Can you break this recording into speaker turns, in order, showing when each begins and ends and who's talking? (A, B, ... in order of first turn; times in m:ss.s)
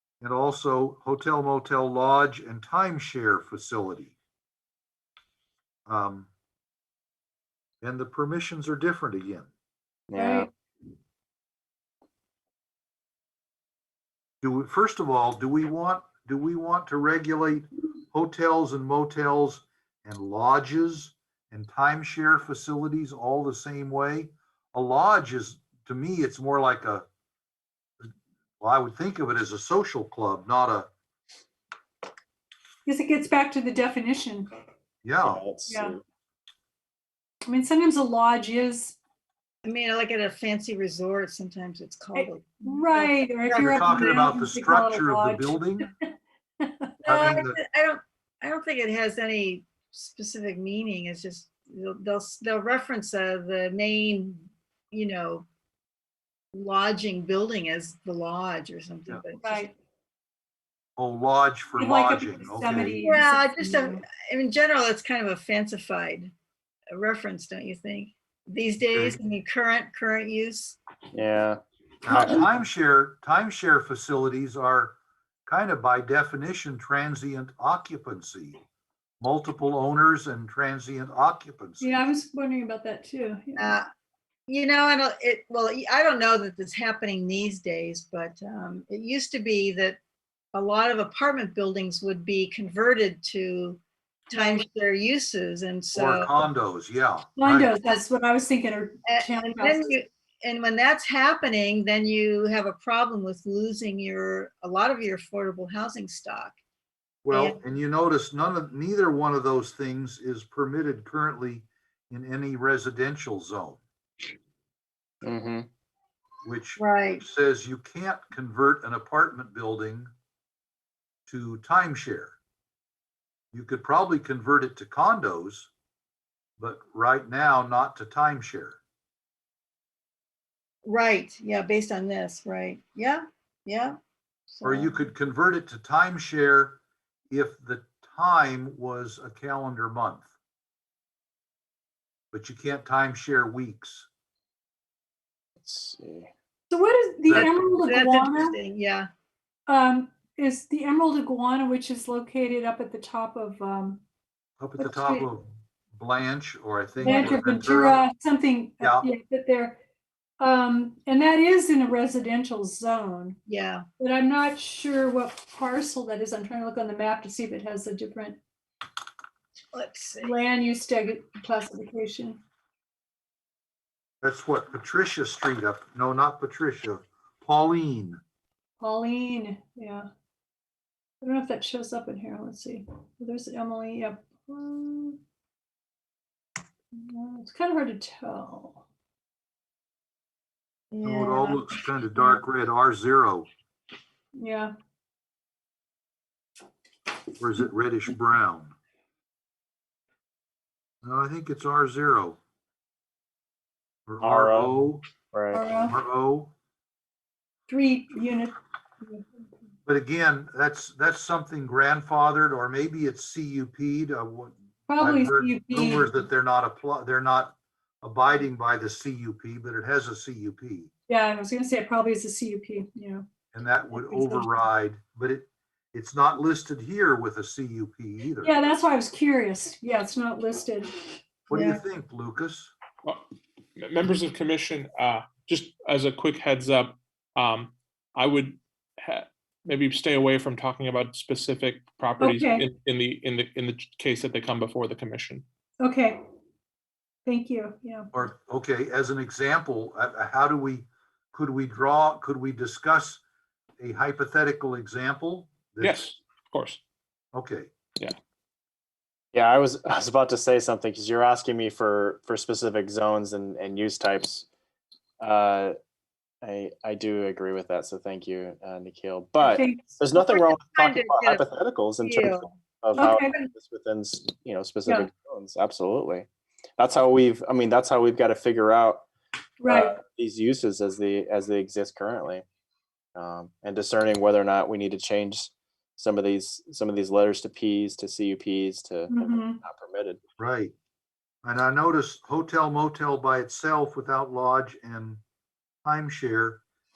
0:00.2-0:04.1 A
0:05.9-0:06.3 A
0:07.8-0:09.5 A
0:10.1-0:10.5 B
0:10.2-0:10.5 C
0:14.4-0:27.1 A
0:28.6-0:30.9 A
0:32.9-0:34.5 C
0:35.0-0:35.4 A
0:35.2-0:36.0 B
0:35.7-0:36.0 C
0:37.5-0:39.0 C
0:39.6-0:44.1 D
0:42.1-0:46.9 C
0:43.6-0:45.9 A
0:47.0-0:55.5 D
0:47.1-0:47.6 A
0:56.5-0:59.7 D
0:59.4-0:59.7 C
1:01.0-1:03.1 A
1:01.8-1:04.0 C
1:03.0-1:06.3 D
1:06.9-1:10.8 D
1:08.8-1:09.2 A
1:11.1-1:12.5 B
1:12.0-1:18.6 A
1:19.2-1:22.0 A
1:21.8-1:23.8 C
1:23.6-1:23.9 D
1:24.5-1:30.0 D
1:30.5-1:36.5 D
1:34.3-1:34.6 C
1:36.0-1:37.7 A
1:37.4-1:39.9 C
1:39.1-1:46.5 D
1:47.2-1:53.8 A
1:47.3-1:47.6 D
1:55.2-1:55.7 B
1:56.4-2:00.1 A
1:56.8-1:57.2 D
2:01.3-2:02.4 A
2:03.5-2:05.7 A
2:06.6-2:08.8 A
2:10.8-2:14.0 D
2:14.5-2:15.0 D
2:14.6-2:16.8 A
2:17.3-2:20.3 A
2:22.3-2:24.1 A
2:25.6-2:26.3 B
2:26.7-2:28.6 C
2:27.3-2:27.6 A
2:27.3-2:29.1 D
2:29.7-2:34.0 C
2:34.6-2:38.0 A
2:34.8-2:35.3 C
2:37.0-2:37.4 D
2:37.0-2:39.8 C
2:38.8-2:39.1 A
2:40.4-2:43.4 C
2:43.5-2:43.8 D
2:44.0-2:48.4 C
2:49.7-2:50.3 D
2:50.2-2:52.4 C
2:54.2-2:58.2 A
2:58.8-3:00.1 C
3:01.2-3:05.2 C
3:06.9-3:08.8 C
3:10.9-3:11.7 D
3:11.0-3:13.5 A
3:14.4-3:14.7 C
3:17.4-3:18.8 A
3:21.0-3:22.4 A
3:24.1-3:25.0 A
3:24.2-3:25.6 B
3:25.5-3:26.0 C
3:25.9-3:26.5 A
3:27.7-3:29.4 C
3:29.9-3:40.9 A
3:34.9-3:36.2 C
3:41.1-3:43.2 C
3:43.5-3:48.5 A
3:43.9-3:44.5 C
3:48.4-3:51.2 C
3:51.5-3:52.7 A
3:51.5-3:51.8 D
3:53.8-4:05.4 E
4:02.2-4:02.7 C
4:05.8-4:06.2 C
4:07.3-4:08.1 C
4:08.1-4:13.2 A
4:13.8-4:16.0 A
4:15.8-4:16.8 E
4:17.3-4:17.7 A
4:19.3-4:24.5 B
4:25.2-4:25.8 B
4:26.4-4:39.1 B
4:29.4-4:29.9 C
4:30.2-4:31.4 D
4:32.0-4:32.5 D
4:33.0-4:33.5 C
4:39.6-4:40.0 C
4:39.7-4:42.4 B
4:43.2-4:50.2 B
4:49.1-4:49.6 C
4:50.4-4:50.7 A
4:51.4-4:55.2 A
4:55.8-4:56.6 A